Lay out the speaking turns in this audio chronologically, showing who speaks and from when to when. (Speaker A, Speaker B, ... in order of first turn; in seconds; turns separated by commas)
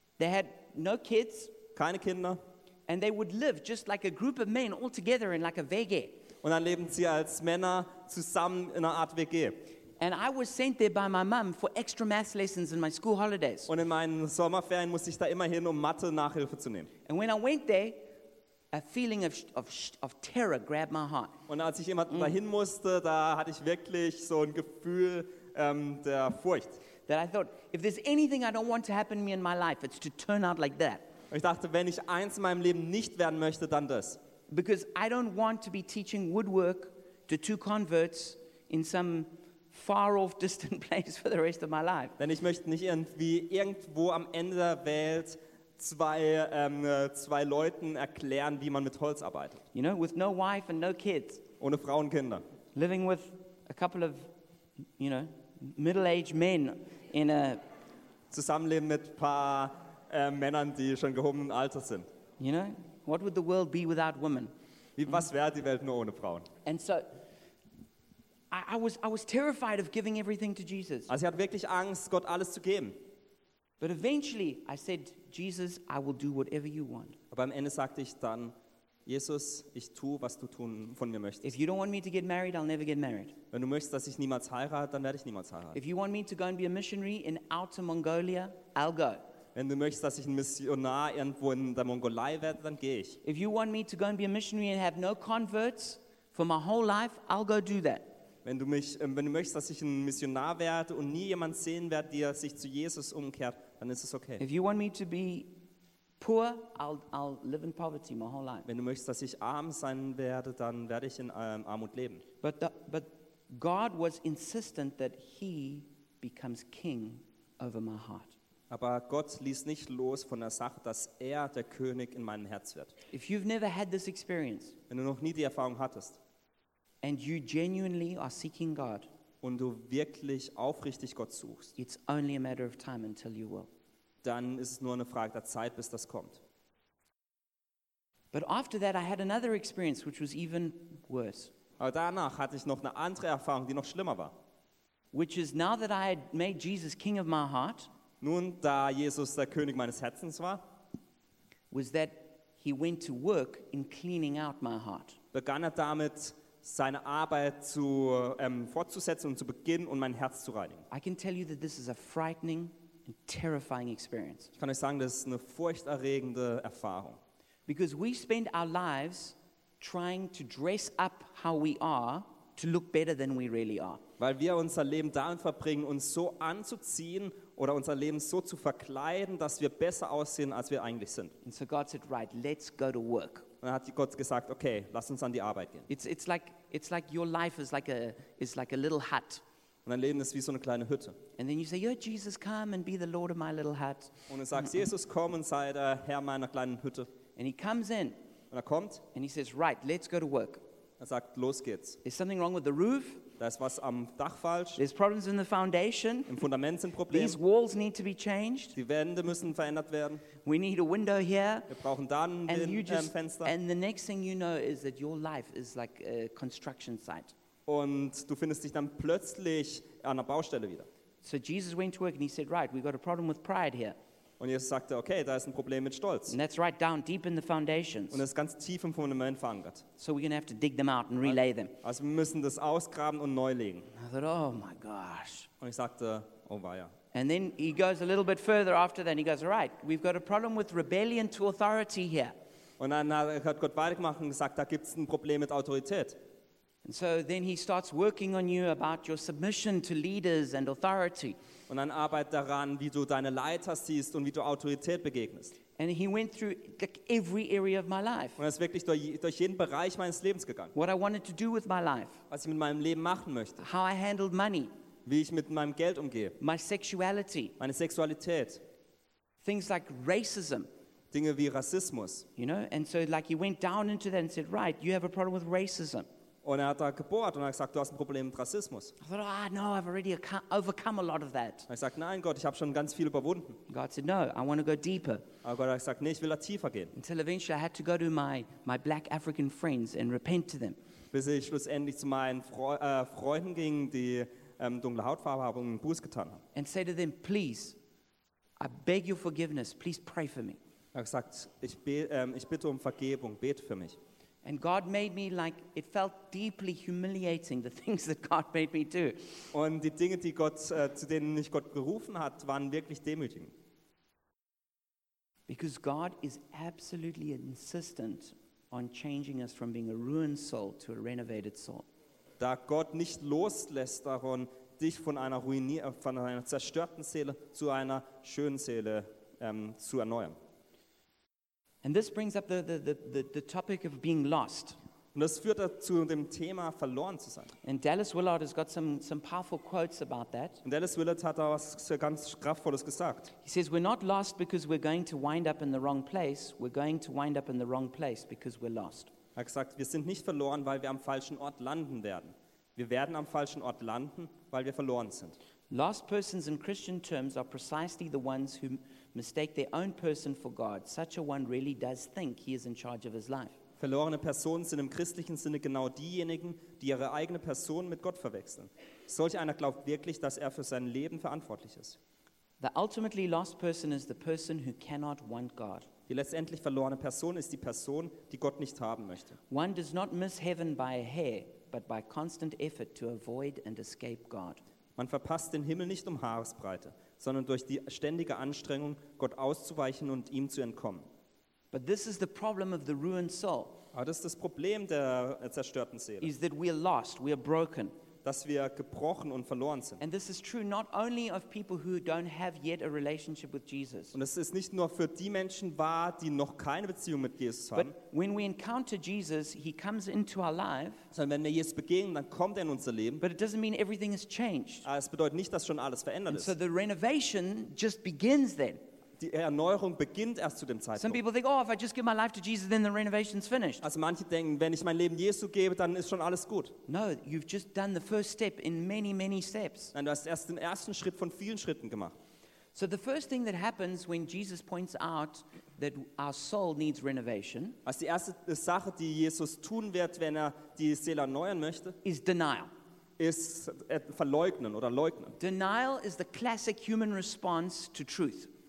Speaker A: 0.2-1.5, Speaker B: 1.8-2.4, Speaker A: 2.9-6.2, Speaker B: 6.4-9.7, Speaker A: 10.0-13.7, Speaker B: 13.7-16.9, Speaker A: 17.1-18.1, Speaker A: 18.7-21.4, Speaker B: 21.5-26.8, Speaker A: 27.1-31.1, Speaker B: 31.3-34.2, Speaker A: 34.5-42.2, Speaker B: 42.2-49.6, Speaker A: 49.7-51.5, Speaker B: 51.6-52.4, Speaker A: 52.8-54.3, Speaker A: 55.0-57.6, Speaker B: 58.3-62.1, Speaker A: 62.4-64.5, Speaker B: 65.0-66.5, Speaker A: 66.7-67.1, Speaker A: 68.5-71.1, Speaker B: 71.1-73.0, Speaker A: 73.8-77.2, Speaker B: 77.3-78.5, Speaker B: 79.1-81.5, Speaker A: 81.4-83.4, Speaker B: 83.5-85.8, Speaker A: 85.7-89.2, Speaker B: 89.5-93.2, Speaker A: 93.2-98.1, Speaker B: 98.5-104.4, Speaker A: 104.4-105.5, Speaker A: 106.2-108.7, Speaker B: 108.7-112.2, Speaker A: 112.4-118.4, Speaker B: 118.7-123.0, Speaker A: 123.1-124.8, Speaker B: 124.9-126.2, Speaker A: 127.0-129.1, Speaker B: 129.4-131.8, Speaker A: 131.8-133.7, Speaker B: 134.2-136.4, Speaker A: 138.3-141.5, Speaker B: 141.8-144.3, Speaker A: 145.1-147.9, Speaker B: 148.2-150.6, Speaker A: 151.7-155.2, Speaker B: 155.3-160.9, Speaker A: 160.9-164.5, Speaker B: 164.6-167.2, Speaker A: 167.7-174.0, Speaker B: 174.2-181.3, Speaker A: 181.4-183.5, Speaker B: 183.6-185.9, Speaker A: 185.9-189.4, Speaker B: 189.9-191.2, Speaker A: 191.4-194.6, Speaker B: 194.3-197.1, Speaker A: 197.4-198.2, Speaker B: 198.5-199.0, Speaker A: 199.1-200.6, Speaker B: 201.0-202.0, Speaker A: 202.0-203.3, Speaker B: 203.4-204.8, Speaker A: 204.8-206.3, Speaker B: 206.3-207.4, Speaker A: 207.1-208.8, Speaker B: 208.8-210.3, Speaker A: 210.4-211.7, Speaker B: 211.7-213.5, Speaker A: 212.5-217.3, Speaker B: 217.7-220.9, Speaker A: 221.2-224.0, Speaker B: 224.4-226.4, Speaker A: 226.3-228.2, Speaker B: 228.1-229.8, Speaker A: 230.0-231.8, Speaker B: 231.2-233.9, Speaker A: 233.9-235.5, Speaker B: 235.6-236.9, Speaker A: 237.1-242.3, Speaker B: 242.8-246.2, Speaker A: 246.8-251.4, Speaker B: 251.7-255.6, Speaker A: 255.8-258.4, Speaker B: 258.4-260.7, Speaker A: 260.8-262.2, Speaker B: 262.3-263.6, Speaker A: 263.6-264.7, Speaker B: 265.1-266.4, Speaker A: 266.4-267.6, Speaker B: 267.6-268.6, Speaker A: 269.4-270.7, Speaker B: 271.1-272.3, Speaker A: 272.4-276.1, Speaker B: 276.4-278.9, Speaker A: 279.0-281.7, Speaker B: 281.7-283.6, Speaker A: 283.7-285.2, Speaker B: 285.4-286.9, Speaker A: 286.9-290.8, Speaker B: 291.1-296.4, Speaker A: 296.5-297.8, Speaker A: 298.6-300.6, Speaker B: 300.9-304.0, Speaker A: 304.4-309.4, Speaker B: 309.5-313.5, Speaker A: 315.5-321.9, Speaker B: 322.4-330.4, Speaker A: 331.8-334.8, Speaker B: 335.1-337.5, Speaker A: 337.6-340.6, Speaker B: 340.6-343.3, Speaker A: 343.4-349.1, Speaker B: 349.4-355.4, Speaker A: 355.7-363.6, Speaker B: 363.8-372.0, Speaker A: 372.6-375.9, Speaker B: 376.1-379.4, Speaker A: 379.5-384.6, Speaker B: 385.0-391.1, Speaker A: 391.7-393.8, Speaker B: 393.9-396.3, Speaker A: 396.2-397.9, Speaker B: 398.2-400.0, Speaker A: 400.0-404.2, Speaker B: 404.1-407.9, Speaker A: 407.8-411.1, Speaker B: 411.1-413.2, Speaker A: 413.2-414.9, Speaker B: 414.9-416.5, Speaker A: 416.3-418.8, Speaker B: 419.2-421.2, Speaker A: 421.0-423.9, Speaker B: 423.8-426.8, Speaker A: 426.9-429.9, Speaker B: 429.9-432.1, Speaker A: 432.8-437.8, Speaker B: 437.9-442.0, Speaker A: 442.0-442.7, Speaker B: 443.2-445.4, Speaker A: 445.4-448.5